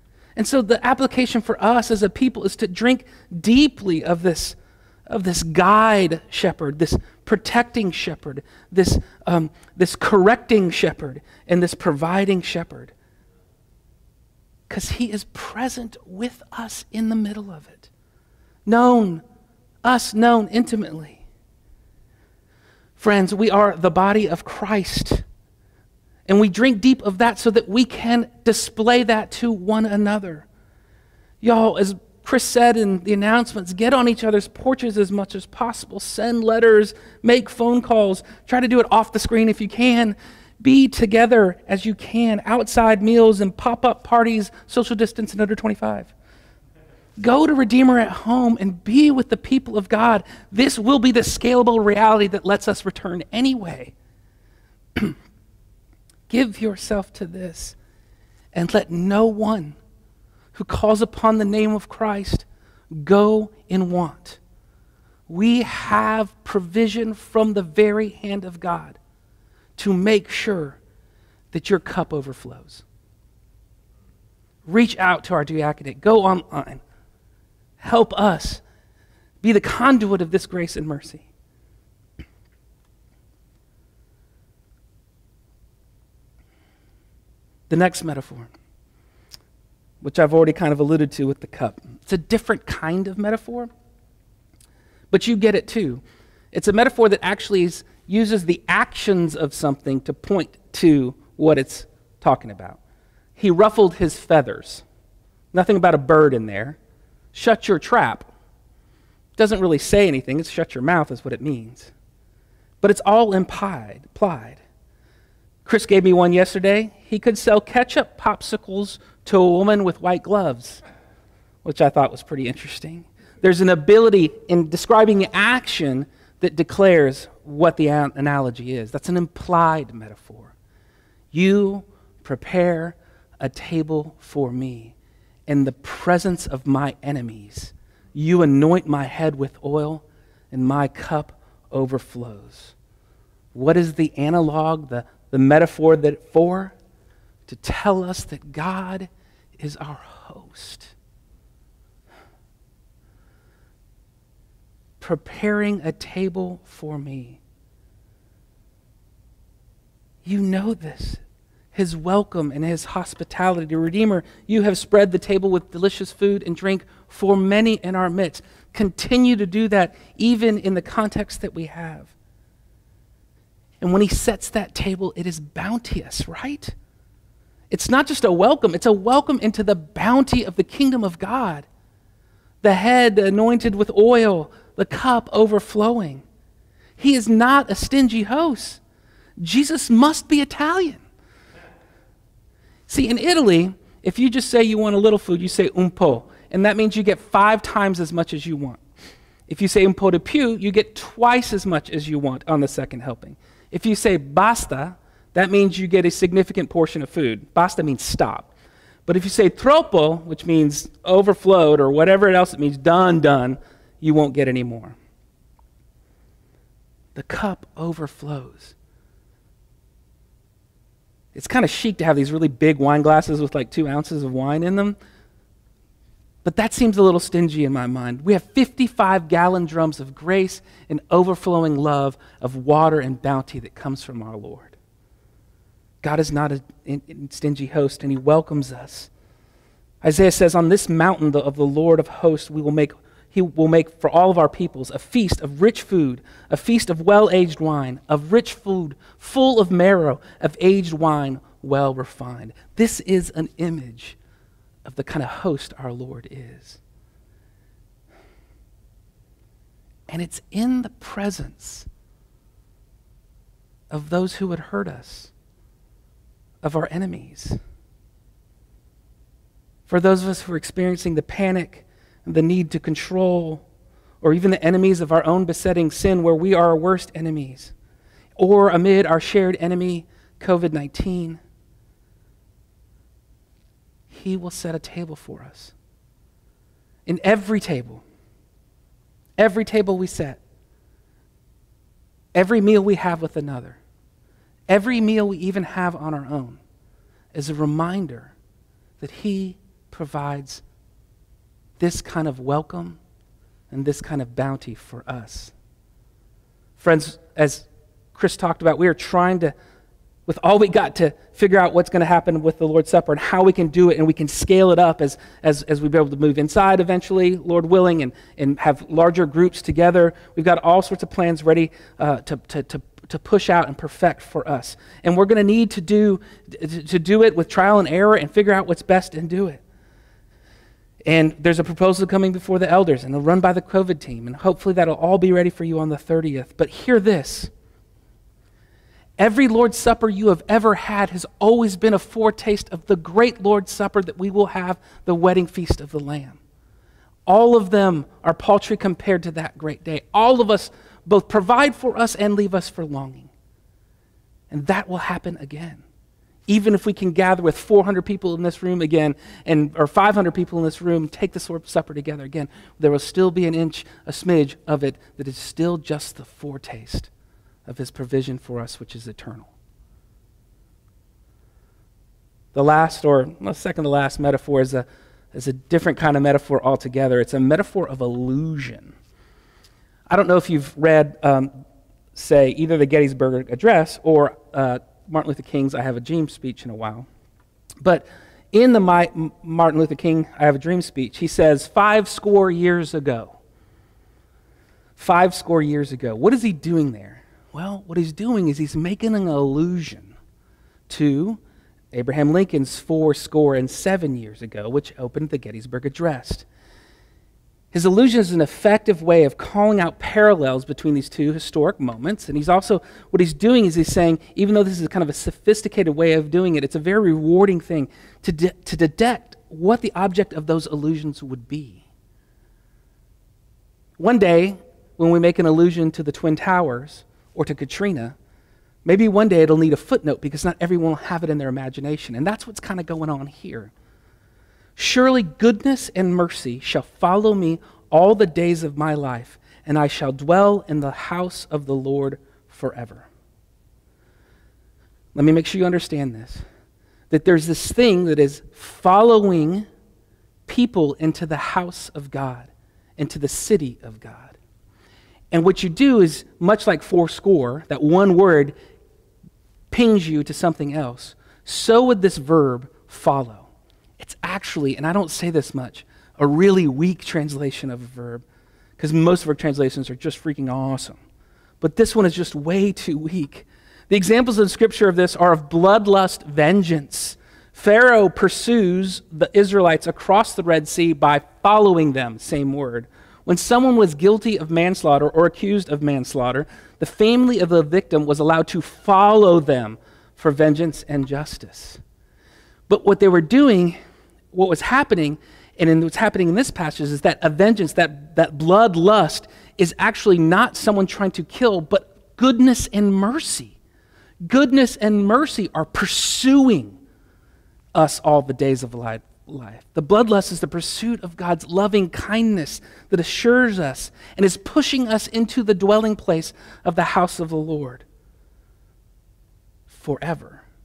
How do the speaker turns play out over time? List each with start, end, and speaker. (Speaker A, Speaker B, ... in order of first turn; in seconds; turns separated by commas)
Speaker A: 0.3-12.9, Speaker A: 14.7-17.9, Speaker A: 18.6-19.2, Speaker A: 19.8-21.2, Speaker A: 23.0-25.2, Speaker A: 26.3-30.4, Speaker A: 31.4-46.1, Speaker A: 47.2-53.9, Speaker A: 56.3-57.8, Speaker A: 58.5-59.8, Speaker A: 60.5-64.4, Speaker A: 65.3-69.0, Speaker A: 69.8-70.8, Speaker A: 71.5-72.8, Speaker A: 74.7-76.8, Speaker A: 77.8-78.6, Speaker A: 79.4-81.2, Speaker A: 87.7-88.5, Speaker A: 90.0-93.7, Speaker A: 95.1-102.8, Speaker A: 103.4-104.8, Speaker A: 105.5-106.8, Speaker A: 107.3-108.3, Speaker A: 109.4-111.9, Speaker A: 112.8-114.6, Speaker A: 115.6-120.8, Speaker A: 121.6-130.5, Speaker A: 131.3-134.9, Speaker A: 135.5-142.7, Speaker A: 143.5-146.7, Speaker A: 147.4-150.9, Speaker A: 155.0-157.4, Speaker A: 160.2-161.2, Speaker A: 161.7-172.1, Speaker A: 173.8-176.7, Speaker A: 177.7-181.7, Speaker A: 182.6-186.2, Speaker A: 187.0-188.8, Speaker A: 189.4-191.0, Speaker A: 192.9-198.8, Speaker A: 199.5-208.5, Speaker A: 209.1-214.9, Speaker A: 217.1-218.7, Speaker A: 221.3-225.0, Speaker A: 226.4-234.7, Speaker A: 236.0-239.1, Speaker A: 240.0-254.2, Speaker A: 254.8-256.8, Speaker A: 260.1-261.9, Speaker A: 263.9-265.3, Speaker A: 266.6-267.6, Speaker A: 269.9-273.6, Speaker A: 274.2-277.7, Speaker A: 278.4-281.4, Speaker A: 284.1-285.7, Speaker A: 287.1-288.0, Speaker A: 289.4-290.4, Speaker A: 292.3-293.8, Speaker A: 294.7-296.6, Speaker A: 297.3-298.3, Speaker A: 299.0-300.6, Speaker A: 301.8-303.0, Speaker A: 303.7-305.5, Speaker A: 306.8-309.5, Speaker A: 310.2-329.6, Speaker A: 331.1-337.5, Speaker A: 339.2-346.4, Speaker A: 347.3-353.3, Speaker A: 354.5-355.8, Speaker A: 356.5-367.1, Speaker A: 367.6-369.5, Speaker A: 372.5-378.9, Speaker A: 380.1-381.5, Speaker A: 382.1-387.1, Speaker A: 387.8-393.4, Speaker A: 395.0-400.1, Speaker A: 400.9-401.4, Speaker A: 401.9-406.5, Speaker A: 407.7-421.8, Speaker A: 424.0-428.1, Speaker A: 428.8-433.7, Speaker A: 434.8-443.1, Speaker A: 445.1-446.4, Speaker A: 447.1-449.7, Speaker A: 450.5-454.4, Speaker A: 455.3-458.5, Speaker A: 459.7-468.2, Speaker A: 468.8-471.0, Speaker A: 471.6-491.8, Speaker A: 492.7-493.8, Speaker A: 494.3-503.6, Speaker A: 504.2-506.8, Speaker A: 507.7-517.8, Speaker A: 519.7-520.4